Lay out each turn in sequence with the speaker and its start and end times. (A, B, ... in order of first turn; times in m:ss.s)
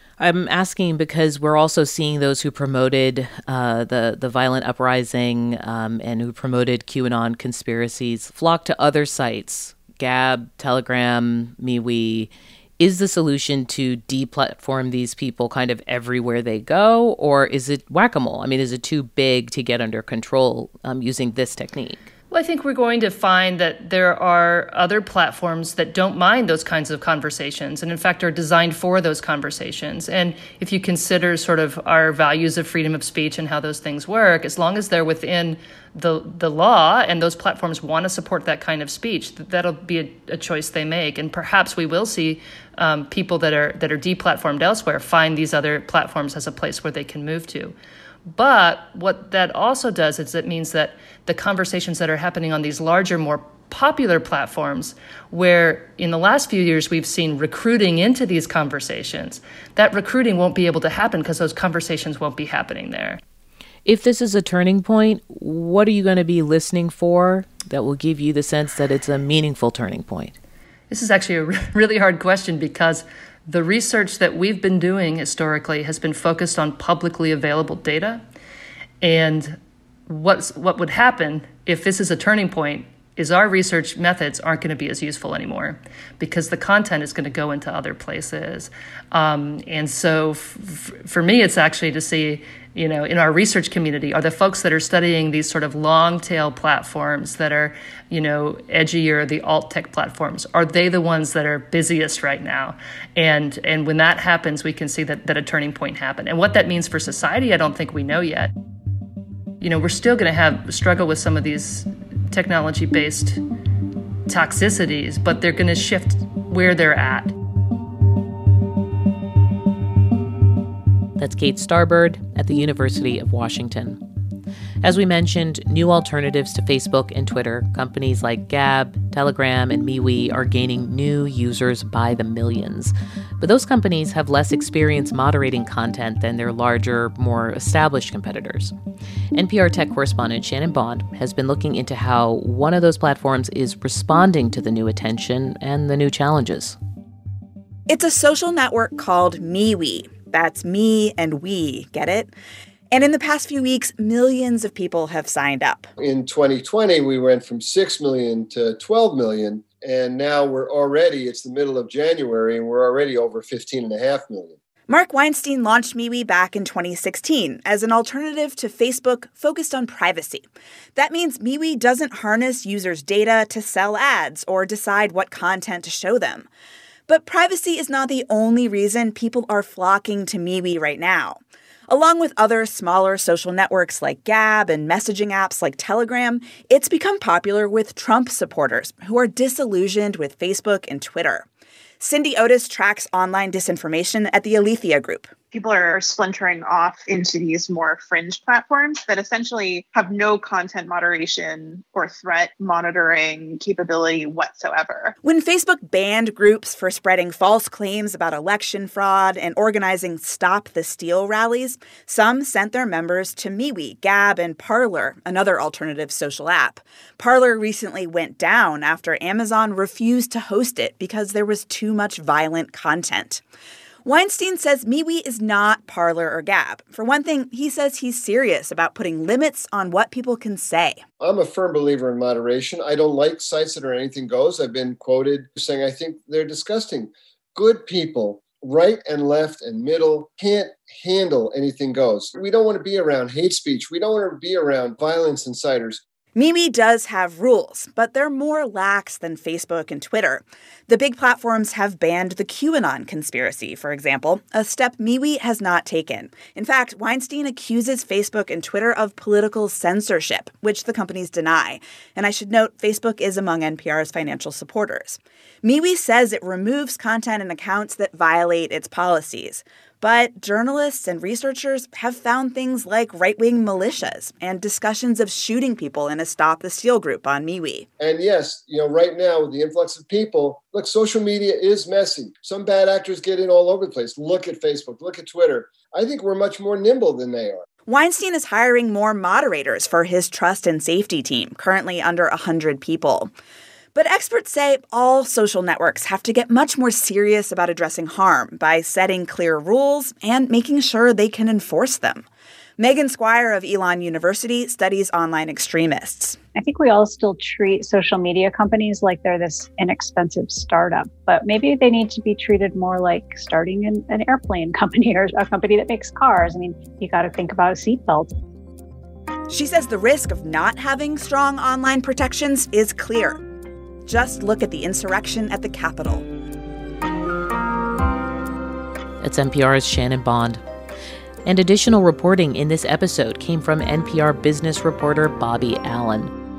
0:00.2-0:22.1 A
0:22.3-0:47.7 B
0:48.4-1:03.2 B
1:03.8-1:10.4 A
1:10.9-1:18.2 B
1:19.0-1:19.6 B
1:20.1-1:48.5 B
1:49.6-1:53.4 B
1:54.3-1:57.3 B
2:01.2-2:04.0 A
2:04.8-2:18.7 A
2:19.3-2:26.8 A
2:27.9-2:32.3 C
2:32.9-2:35.9 C
2:36.0-2:44.6 D
2:44.9-2:56.5 C
2:57.1-3:11.4 C
3:12.0-3:15.3 C
3:15.5-3:25.1 E
3:25.2-3:43.4 C
3:44.0-3:51.0 C
3:51.2-4:06.0 D
4:06.3-4:37.9 C
4:38.0-4:47.6 D
4:47.9-4:53.3 C
4:53.9-5:02.2 C
5:02.8-5:06.4 C
5:06.5-5:18.3 F
5:19.5-5:23.4 C
5:24.0-5:26.2 C
5:29.2-5:30.6 A
5:31.4-5:36.3 A